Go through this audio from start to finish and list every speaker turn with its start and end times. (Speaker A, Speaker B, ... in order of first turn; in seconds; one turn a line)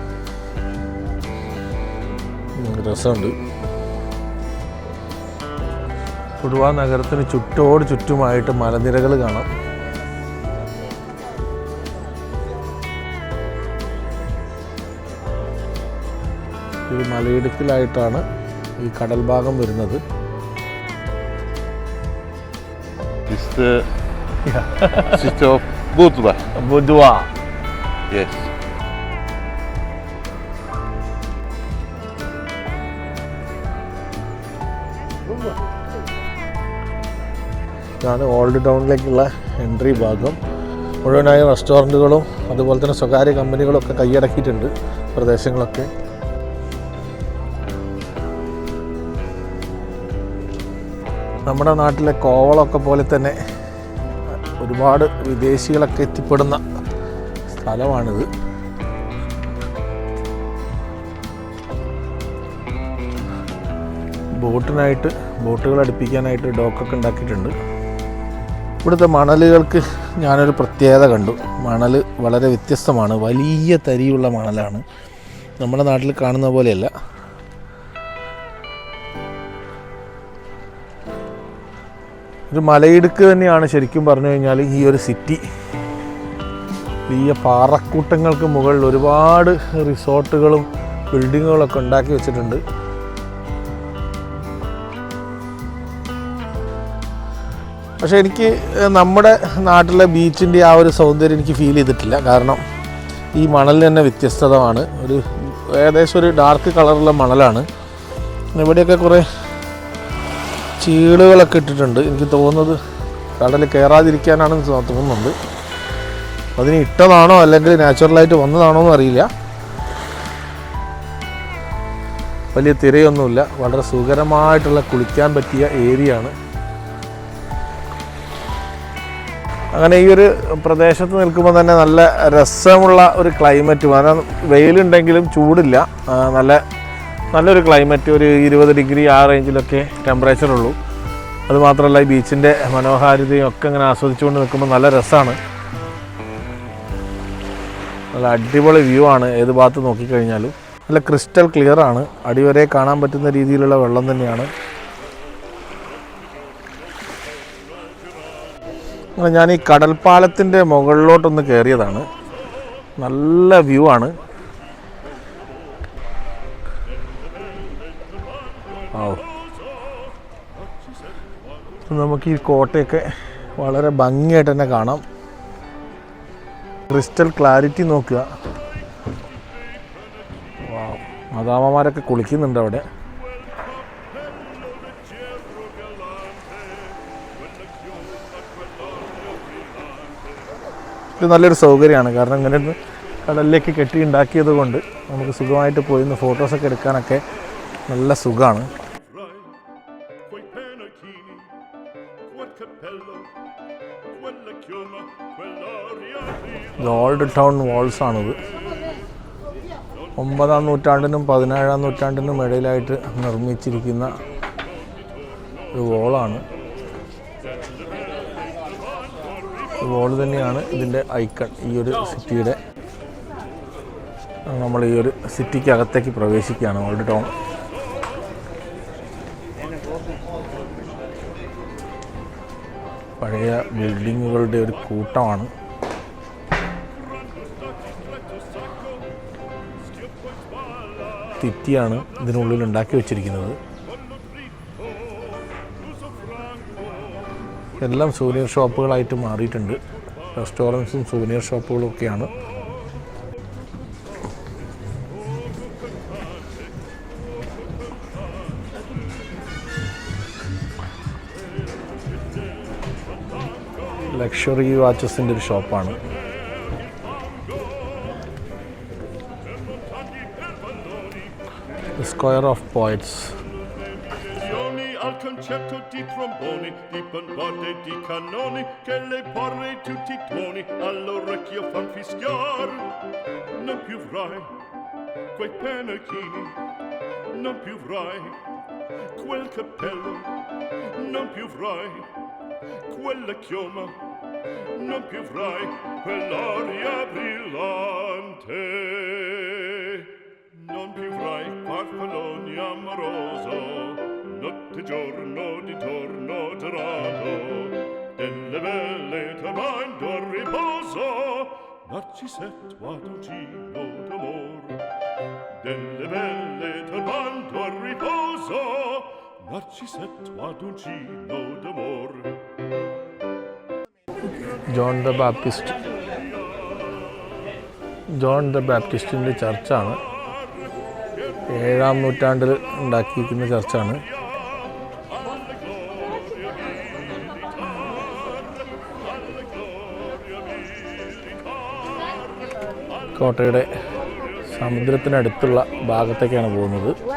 Speaker A: 2.6-3.4
Speaker A: 6.4-9.5
Speaker A: 16.9-18.2
Speaker A: 18.8-20.0
Speaker B: 23.3-23.8
Speaker A: 24.4-25.3
Speaker B: 25.1-26.4
Speaker A: 26.6-27.3
Speaker B: 28.1-28.5
Speaker A: 38.0-40.4
Speaker A: 41.0-45.9
Speaker A: 51.5-53.4
Speaker A: 54.3-56.6
Speaker A: 57.5-58.3
Speaker A: 64.4-67.5
Speaker A: 68.8-74.8
Speaker A: 75.6-76.9
Speaker A: 82.5-85.4
Speaker A: 87.1-92.6
Speaker A: 98.0-102.6
Speaker A: 103.4-107.7
Speaker A: 108.5-109.3
Speaker A: 110.8-112.8
Speaker A: 113.4-115.3
Speaker A: 116.6-119.3
Speaker A: 122.5-126.3
Speaker A: 129.7-136.6
Speaker A: 137.3-140.8
Speaker A: 141.5-145.4
Speaker A: 148.1-154.5
Speaker A: 159.2-162.1
Speaker A: 163.0-164.1
Speaker A: 168.9-169.3
Speaker A: 171.9-173.1
Speaker A: 173.6-175.0
Speaker A: 176.9-178.3
Speaker A: 180.6-182.8
Speaker C: 184.0-186.7
Speaker C: 187.6-190.0
Speaker A: 191.2-197.2
Speaker A: 197.9-198.7
Speaker C: 200.5-201.4
Speaker C: 202.4-203.2
Speaker C: 204.4-205.1
Speaker A: 206.8-208.4
Speaker A: 210.2-214.2
Speaker A: 215.7-216.4
Speaker A: 219.8-222.6
Speaker A: 224.5-227.3
Speaker A: 233.2-235.5
Speaker A: 241.4-243.6
Speaker A: 247.8-249.8
Speaker A: 250.3-252.3
Speaker A: 264.1-266.0
Speaker A: 272.0-273.4
Speaker C: 274.7-282.9
Speaker C: 283.7-284.5
Speaker C: 285.4-286.6
Speaker C: 287.4-288.4
Speaker C: 289.2-290.3
Speaker C: 291.0-292.1
Speaker C: 292.9-294.0
Speaker C: 294.8-299.0
Speaker C: 299.7-300.1
Speaker C: 300.7-307.5
Speaker C: 308.2-311.4
Speaker C: 311.9-314.8
Speaker C: 315.7-318.8
Speaker C: 319.6-322.3
Speaker A: 324.4-325.8
Speaker A: 328.1-330.0
Speaker A: 331.5-334.0
Speaker A: 343.1-343.7
Speaker A: 344.5-347.0